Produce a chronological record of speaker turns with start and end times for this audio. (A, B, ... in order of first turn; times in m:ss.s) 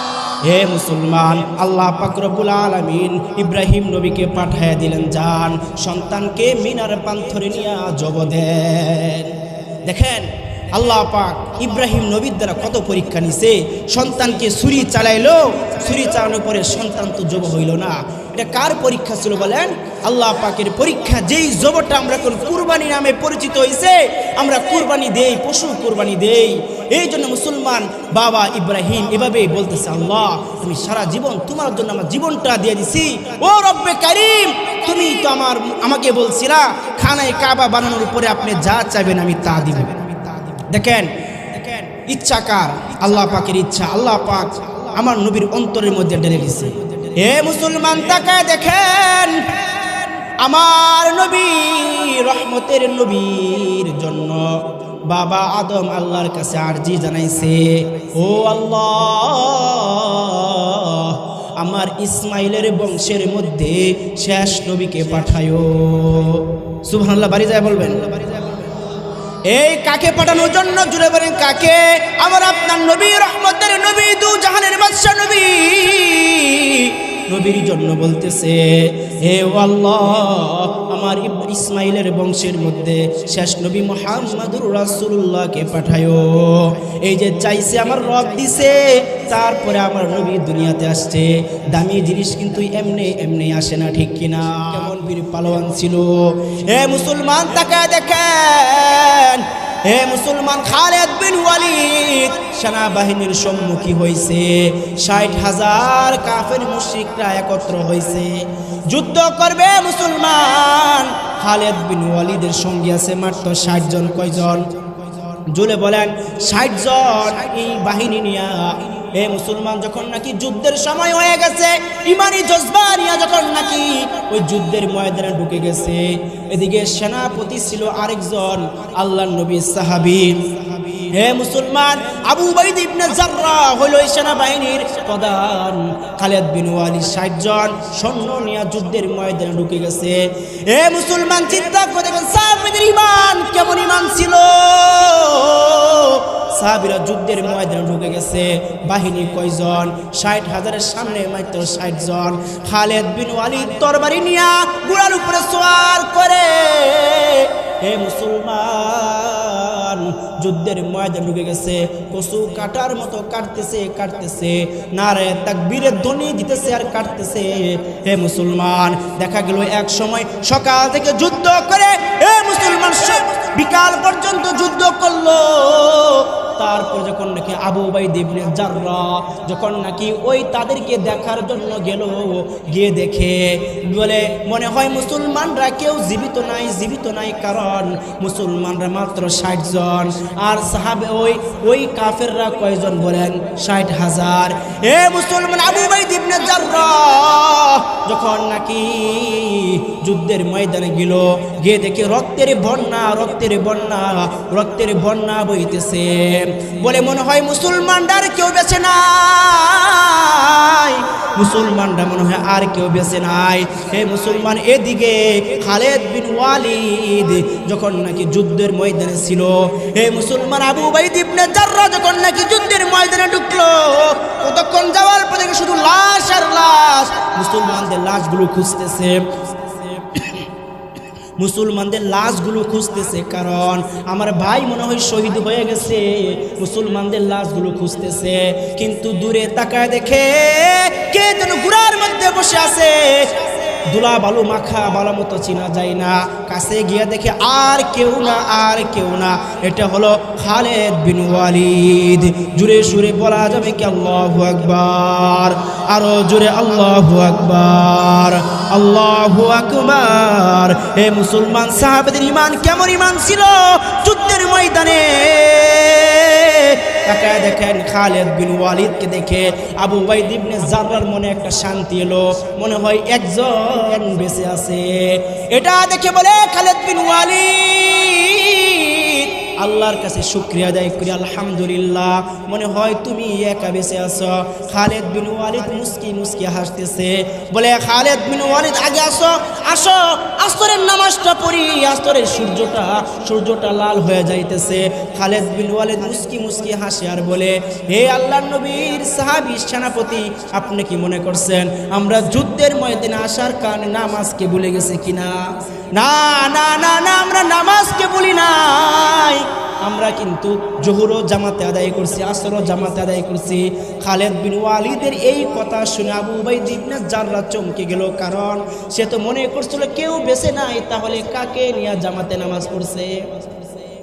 0:00.4-1:08.6 A
1:09.5-1:54.8 A
1:55.5-3:50.4 A
3:51.4-5:23.4 A